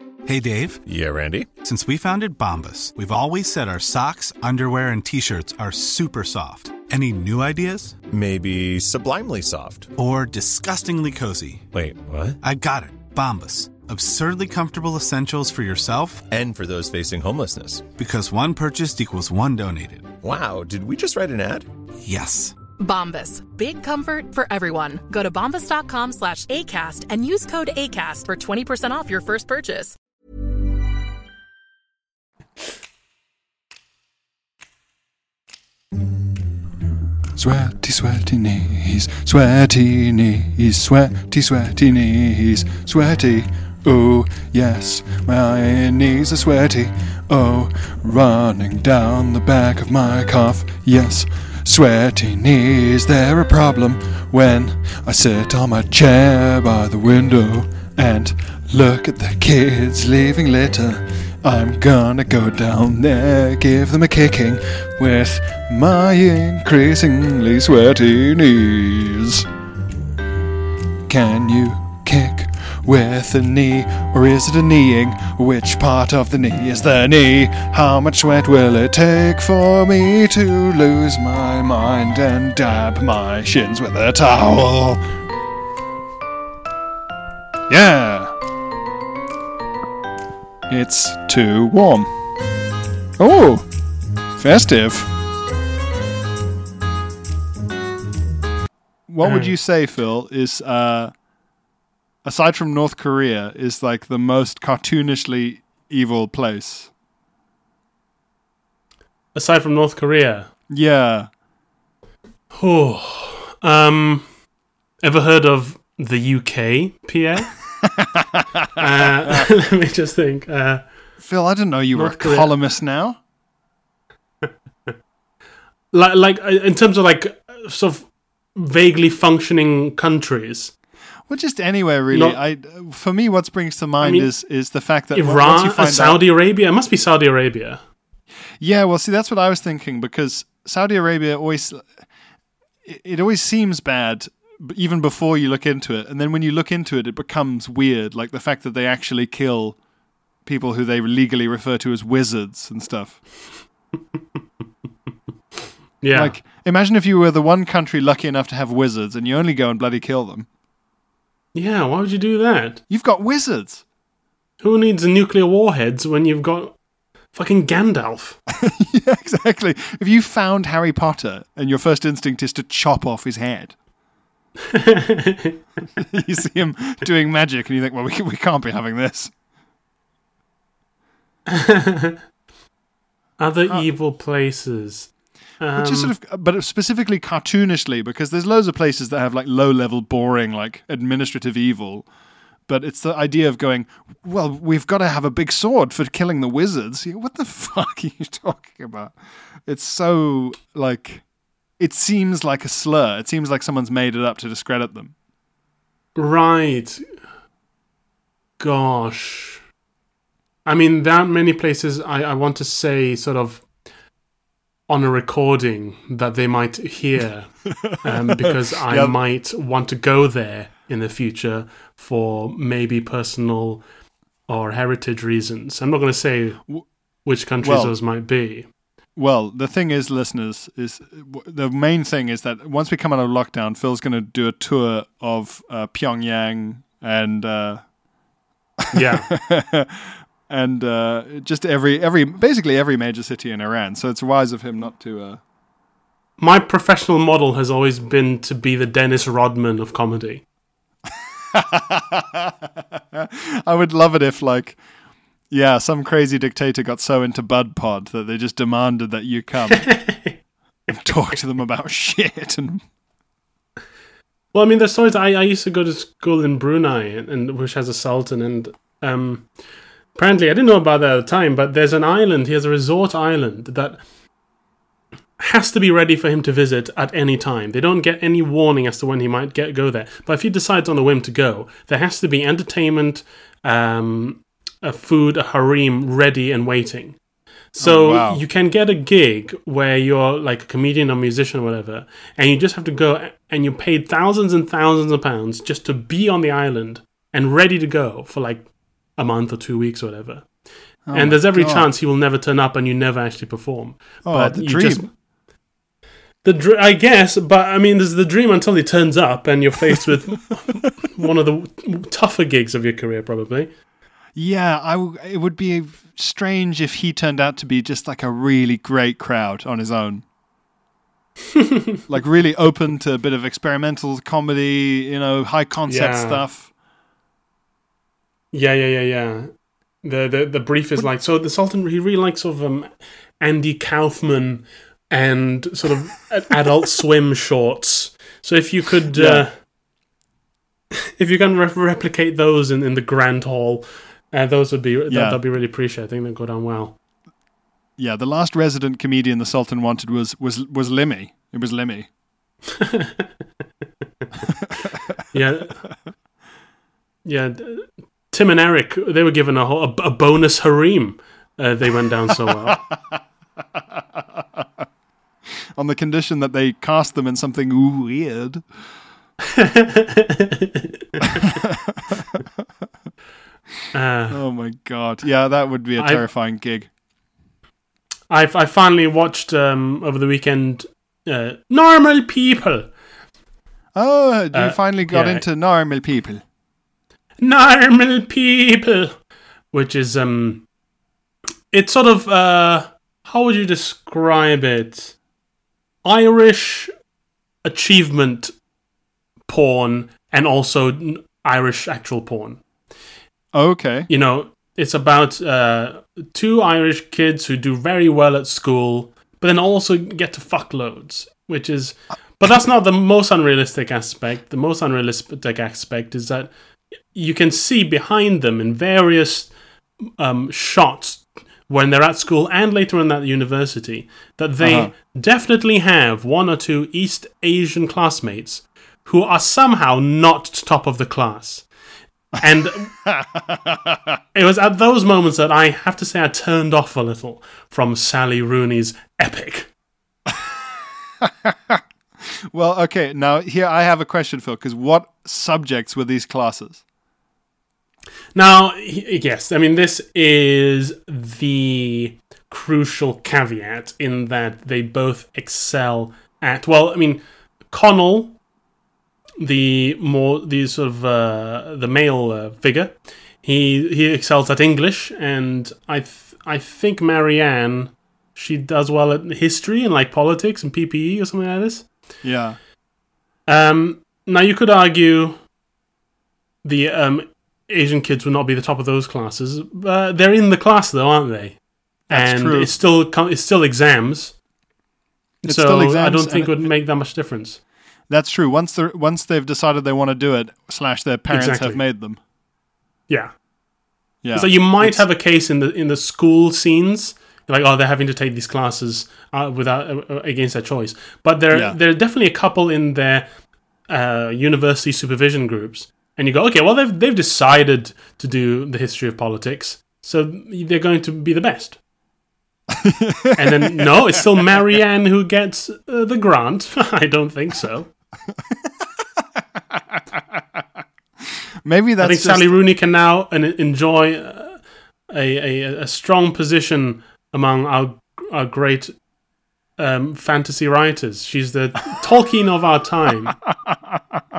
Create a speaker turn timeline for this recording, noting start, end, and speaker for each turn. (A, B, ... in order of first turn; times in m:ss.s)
0:00.2-0:00.8 A
0:00.8-0:01.5 B
0:01.6-0:08.0 A
0:08.1-0:09.9 B
0:10.0-0:11.7 A
0:11.7-0:12.4 B
0:12.4-0:16.3 A
0:16.3-0:17.9 B
0:18.0-0:20.2 A
0:20.2-0:21.7 B
0:22.0-0:22.6 A
0:22.8-0:30.0 C
0:37.4-1:09.5 D
1:11.1-1:25.1 D
1:27.7-1:28.3 D
1:30.7-1:32.1 D
1:33.2-1:33.7 D
1:34.4-1:35.1 D
1:39.1-1:41.1 D
1:39.2-1:39.5 E
1:42.2-1:46.9 D
1:49.4-1:50.5 E
1:50.7-1:51.3 D
1:52.5-1:54.3 E
1:55.0-1:57.5 E
1:58.0-1:58.4 D
1:58.8-2:00.9 E
2:01.2-2:03.2 D
2:01.9-2:02.5 E
2:05.9-2:10.7 E
2:11.3-2:16.2 D
2:12.1-2:12.4 E
2:14.0-2:14.3 E
2:15.1-2:17.8 E
2:18.6-2:22.0 D
2:22.8-2:29.8 D
2:30.4-2:33.3 D
2:36.0-2:36.4 E
2:36.1-2:40.5 D
2:41.5-2:42.8 E
2:42.9-2:43.8 D
2:44.6-2:46.8 E
2:47.3-2:48.4 E
2:48.5-2:53.8 D
2:54.7-2:55.6 E
2:56.0-2:59.3 D
3:01.5-3:02.2 E
3:03.4-3:06.1 E
3:05.8-3:12.1 D
3:12.7-3:21.2 D
3:21.8-3:25.1 D
3:26.2-3:27.0 E
3:28.6-3:29.6 E
3:30.7-3:33.7 E
3:34.9-3:43.8 E
3:37.7-3:39.2 D
3:44.5-3:46.7 E
3:47.2-3:48.7 E
3:47.6-3:48.0 D
3:49.2-3:57.9 D
3:58.9-4:05.4 D
3:58.9-3:59.3 E
4:06.4-4:10.4 E
4:11.5-4:14.8 D
4:15.5-4:20.1 D
4:19.9-4:20.4 E
4:20.9-4:22.8 D
4:24.5-4:29.5 E
4:30.1-4:34.0 E
4:35.4-4:47.2 E
4:47.7-5:00.5 E
4:47.8-4:48.4 D
5:01.1-5:01.9 D
5:01.1-5:05.1 E
5:04.2-5:05.1 D
5:06.4-5:13.7 E
5:14.4-5:20.2 D
5:22.1-5:26.7 D
5:25.9-5:26.4 E
5:28.5-5:39.5 E
5:39.1-5:39.4 D
5:41.2-5:47.0 E
5:45.1-5:45.4 D
5:48.0-5:52.1 D
5:52.8-5:53.3 E
5:55.3-5:55.9 E
5:57.2-6:02.8 E
6:02.7-6:03.2 D
6:05.8-6:08.7 D
6:09.6-6:11.5 E
6:11.4-6:12.6 D
6:13.9-6:14.4 E
6:14.3-6:16.9 D
6:16.0-6:16.2 E
6:18.3-6:22.9 E
6:24.0-6:26.4 D
6:24.5-6:25.4 E
6:27.4-6:29.2 E
6:29.7-6:30.7 E
6:31.7-6:35.2 E
6:36.0-6:36.9 E
6:37.6-6:38.5 E
6:39.5-6:42.6 E
6:43.5-6:44.1 D
6:44.1-6:56.5 E
6:57.1-6:59.5 E
7:00.2-7:11.7 E
7:04.6-7:04.9 D
7:12.4-7:12.9 E
7:12.9-7:14.1 D
7:14.3-7:19.7 E
7:20.3-7:21.8 D
7:22.5-7:26.8 D
7:28.4-7:38.4 E
7:39.4-7:51.9 E
7:52.2-7:52.6 D
7:53.5-7:55.4 E
7:56.6-8:04.4 E
8:02.1-8:02.7 D
8:05.4-8:06.7 D
8:05.4-8:07.6 E
8:08.1-8:12.2 D
8:11.3-8:11.8 E
8:13.1-8:13.3 E
8:14.2-8:15.0 D
8:14.3-8:23.3 E
8:21.5-8:21.8 D
8:23.9-8:31.8 E
8:32.7-8:33.9 D
8:33.4-8:37.9 E
8:41.6-8:42.5 D
8:42.0-8:48.9 E
8:49.8-8:53.4 E
8:53.6-8:54.2 D